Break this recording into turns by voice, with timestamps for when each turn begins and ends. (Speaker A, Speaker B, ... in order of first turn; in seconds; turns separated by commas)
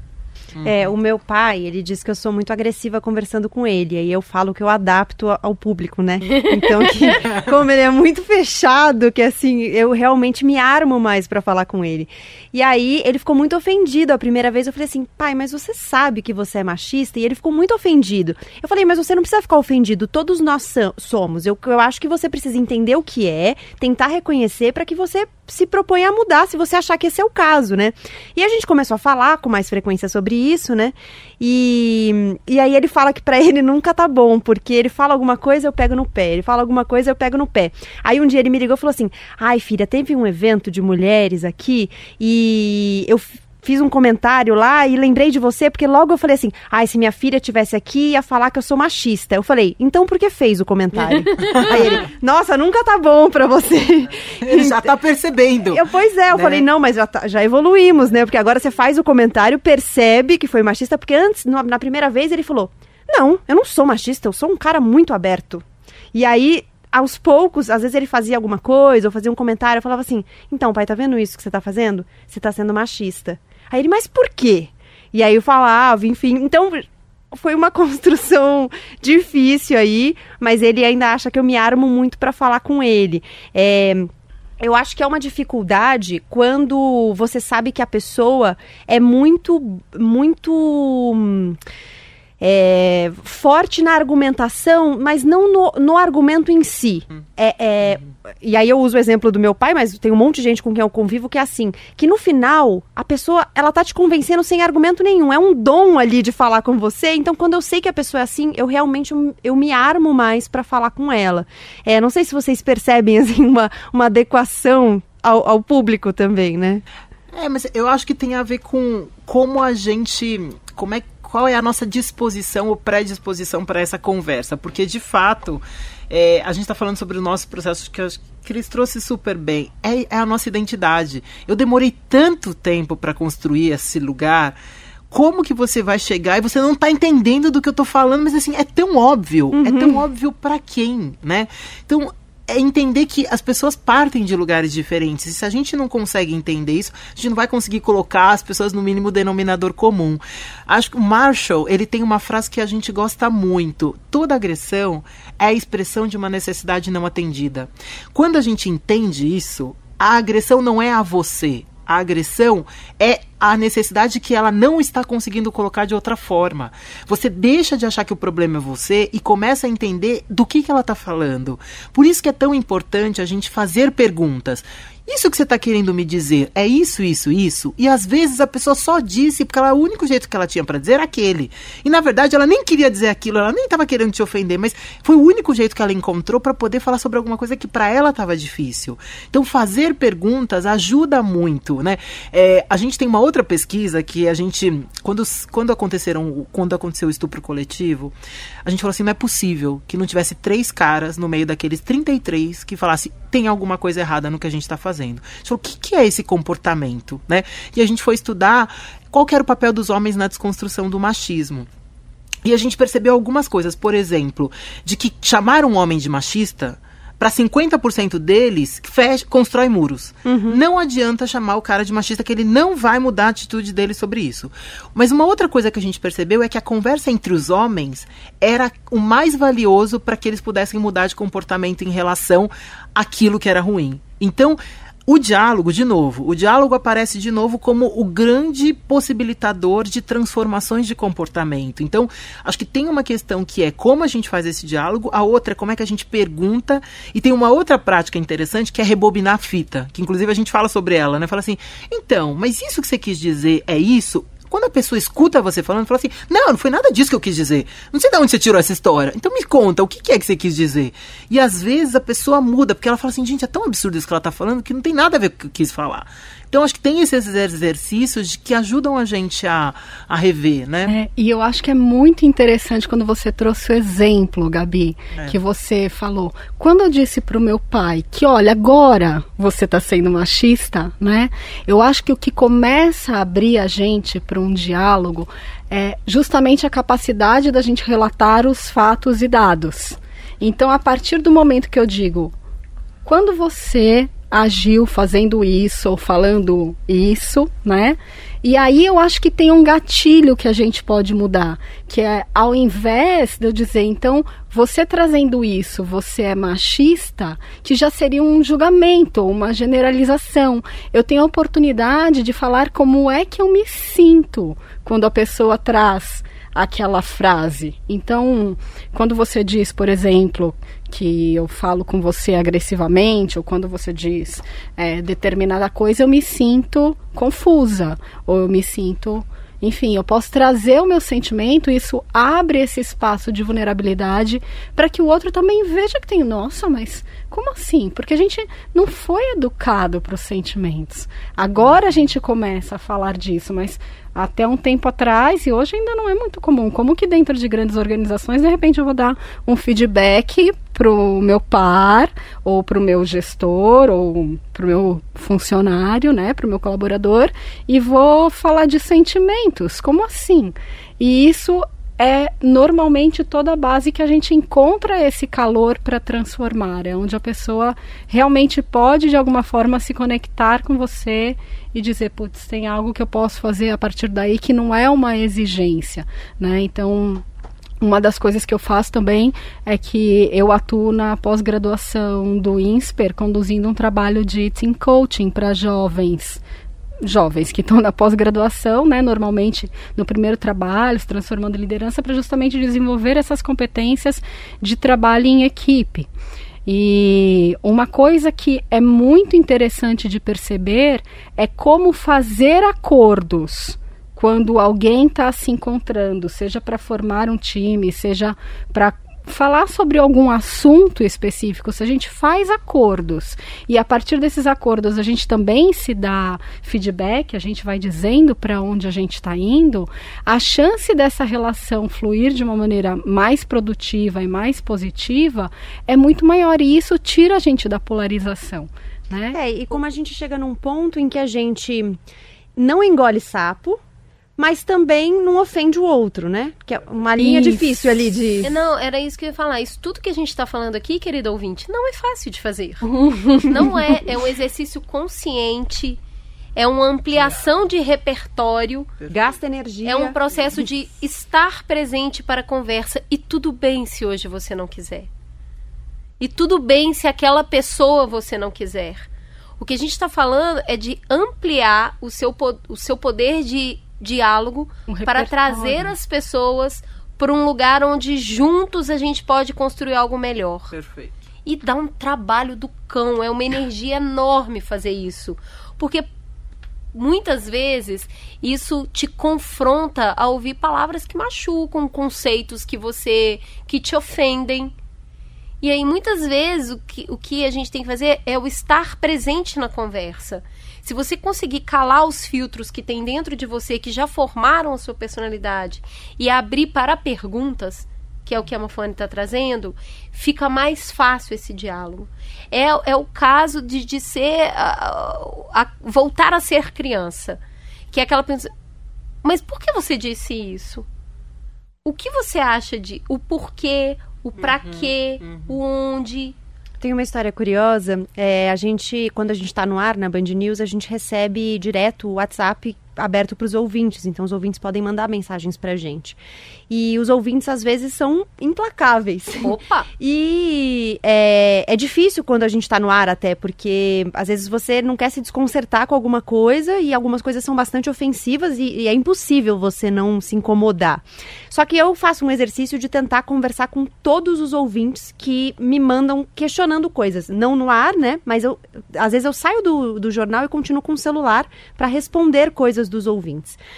Speaker A: 0.6-0.9, Speaker B: 0.6-54.8, Speaker C: 6.3-7.1, Speaker A: 51.4-52.0, Speaker A: 54.4-56.7, Speaker B: 55.6-65.6, Speaker B: 66.1-91.6, Speaker B: 92.4-116.8, Speaker A: 117.3-134.6, Speaker A: 135.1-198.1, Speaker B: 139.5-140.0, Speaker A: 198.7-211.7, Speaker A: 212.4-270.9, Speaker B: 220.3-220.6, Speaker D: 270.9-292.3, Speaker A: 275.1-275.4, Speaker D: 293.0-377.2, Speaker A: 341.6-342.1, Speaker D: 377.8-386.4, Speaker D: 387.0-396.1, Speaker D: 396.7-429.4, Speaker B: 429.3-432.0, Speaker B: 432.6-433.8, Speaker B: 434.4-438.5, Speaker D: 437.2-438.2, Speaker C: 438.4-446.0, Speaker D: 442.9-443.5, Speaker C: 446.6-448.9, Speaker A: 449.0-449.3, Speaker B: 449.1-450.2, Speaker C: 449.8-455.1, Speaker C: 456.2-459.1, Speaker C: 459.6-470.7, Speaker D: 464.9-465.9, Speaker A: 470.7-471.1, Speaker C: 471.4-476.1, Speaker C: 476.9-484.7, Speaker C: 485.6-507.4, Speaker C: 507.9-508.5, Speaker C: 509.2-510.9, Speaker C: 511.9-516.4, Speaker A: 514.4-515.6, Speaker B: 516.8-526.2, Speaker B: 526.7-553.6, Speaker C: 529.4-529.9